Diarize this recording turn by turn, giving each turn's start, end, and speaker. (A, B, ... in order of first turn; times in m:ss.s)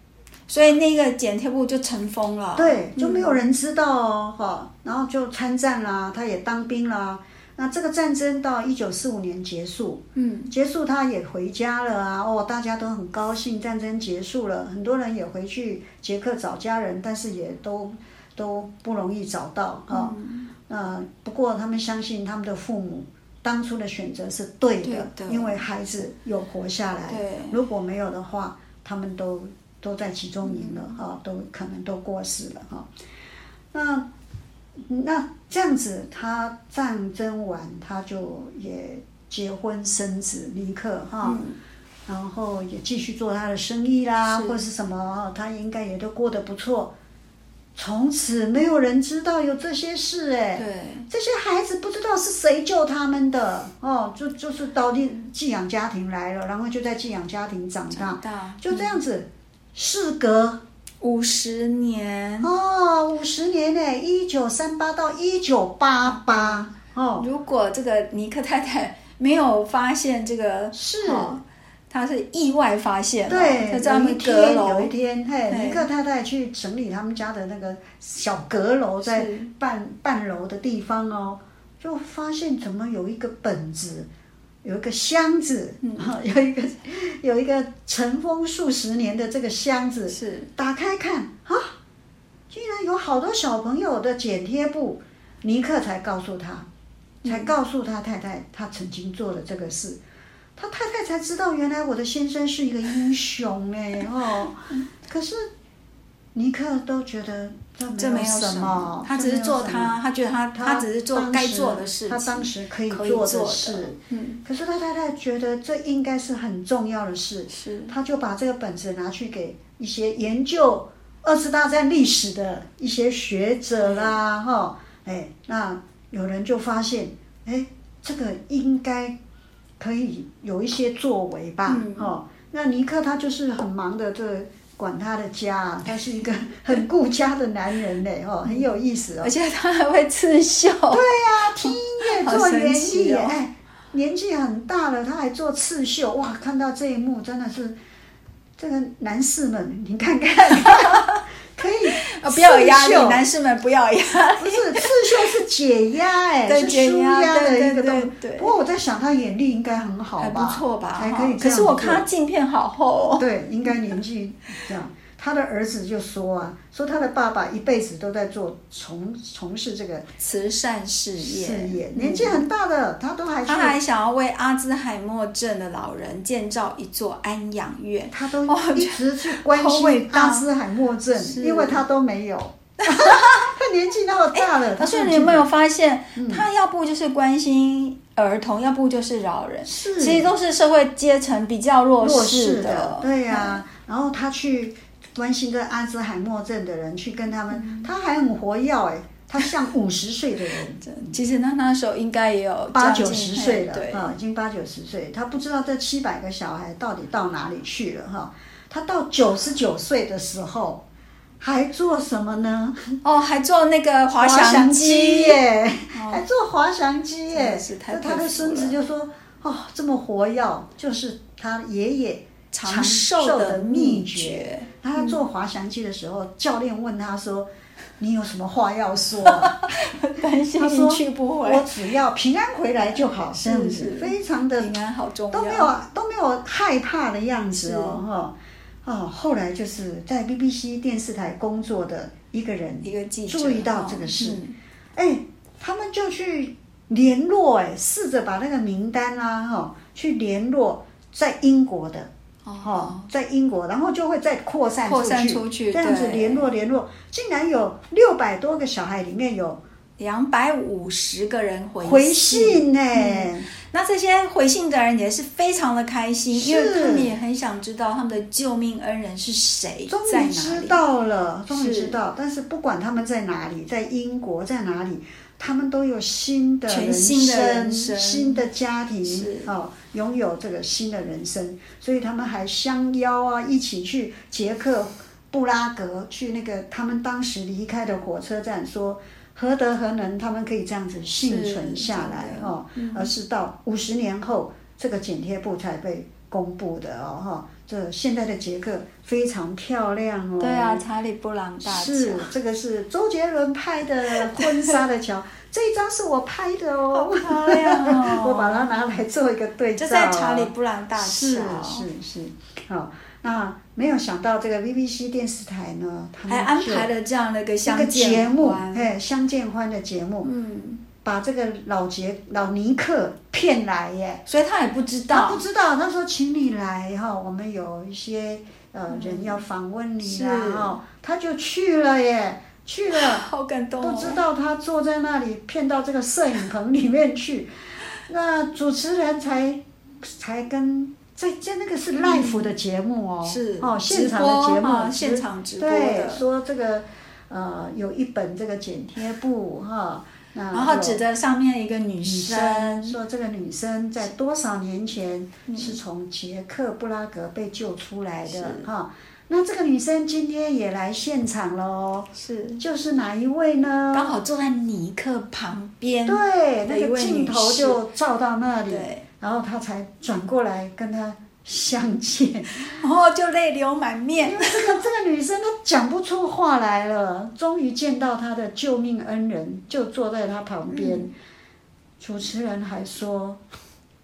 0:00.5-0:03.4 A
0:02.6-0:20.1 B
0:10.1-0:10.5 A
0:19.9-0:20.5 A
0:20.7-0:32.9 B
0:24.8-0:25.6 A
0:27.1-0:27.6 A
0:30.4-0:30.9 A
0:33.7-0:34.1 B
0:34.8-0:41.4 B
0:41.2-0:41.6 A
0:42.1-0:46.9 B
0:44.3-0:44.6 A
0:47.7-1:00.6 B
0:50.6-0:51.1 A
0:57.9-0:59.0 A
1:01.0-1:02.5 A
1:02.4-1:07.3 B
1:06.1-1:06.6 A
1:07.2-1:14.9 A
1:10.7-1:11.4 B
1:13.3-1:24.1 B
1:15.5-1:15.9 A
1:19.0-1:19.5 A
1:24.6-1:31.7 B
1:25.8-1:26.1 A
1:30.1-1:30.5 A
1:32.5-1:36.7 B
1:37.2-1:40.0 B
1:37.2-1:37.5 A
1:40.6-1:45.5 B
1:46.3-1:50.0 B
1:48.0-1:54.4 A
1:50.5-2:09.2 B
1:57.5-1:57.9 A
2:03.8-2:04.2 A
2:09.8-2:19.3 B
2:11.7-2:12.1 A
2:19.2-2:23.4 A
2:20.9-2:27.8 B
2:28.6-2:33.2 B
2:30.6-2:31.2 A
2:31.9-2:35.3 A
2:34.4-2:42.1 B
2:36.4-2:38.5 A
2:40.2-2:43.2 A
2:43.2-2:50.1 B
2:50.2-2:52.4 A
2:51.2-2:53.8 B
2:53.4-3:00.4 A
2:58.1-3:05.5 B
3:01.2-3:01.8 A
3:02.8-3:03.5 A
3:04.3-3:13.6 A
3:06.2-3:06.4 B
3:09.6-3:10.3 B
3:12.0-3:21.2 B
3:17.5-3:17.9 A
3:20.8-3:24.1 A
3:22.7-3:30.8 B
3:31.4-3:33.0 B
3:33.0-3:35.4 A
3:34.2-3:49.6 B
3:35.9-3:36.2 A
3:37.3-3:38.8 A
3:42.5-3:45.2 A
3:49.2-3:51.7 A
3:50.6-3:54.7 B
3:53.3-3:55.7 A
3:55.3-4:04.4 B
3:57.5-3:58.0 A
4:02.8-4:04.5 A
4:04.9-4:12.1 B
4:12.4-4:13.1 A
4:12.6-4:19.6 B
4:14.8-4:16.5 A
4:20.0-4:30.8 A
4:21.8-4:23.5 B
4:26.3-4:27.1 B
4:29.9-5:00.8 B
4:31.5-4:32.0 A
4:36.7-4:38.4 A
4:39.0-4:39.5 A
4:51.2-4:53.1 A
5:00.4-5:02.3 A
5:01.6-5:16.9 B
5:04.4-5:04.6 A
5:06.9-5:08.7 A
5:09.8-5:11.9 A
5:16.3-5:18.9 A
5:17.6-5:20.3 B
5:20.2-5:20.8 A
5:20.9-5:24.2 B
5:24.2-5:25.4 A
5:25.1-5:33.2 B
5:28.9-5:29.4 A
5:30.0-5:30.8 A
5:32.9-5:34.2 A
5:33.8-5:51.0 B
5:42.0-5:42.5 A
5:43.2-5:46.2 A
5:50.5-5:53.0 A
5:52.0-6:04.1 B
5:55.5-5:55.8 A
5:58.3-5:58.7 A
6:02.2-6:02.6 A
6:03.9-6:07.8 A
6:06.0-6:12.8 B
6:08.7-6:09.0 A
6:12.7-6:14.8 A
6:14.2-6:21.1 B
6:20.7-6:21.1 A
6:22.0-6:23.4 B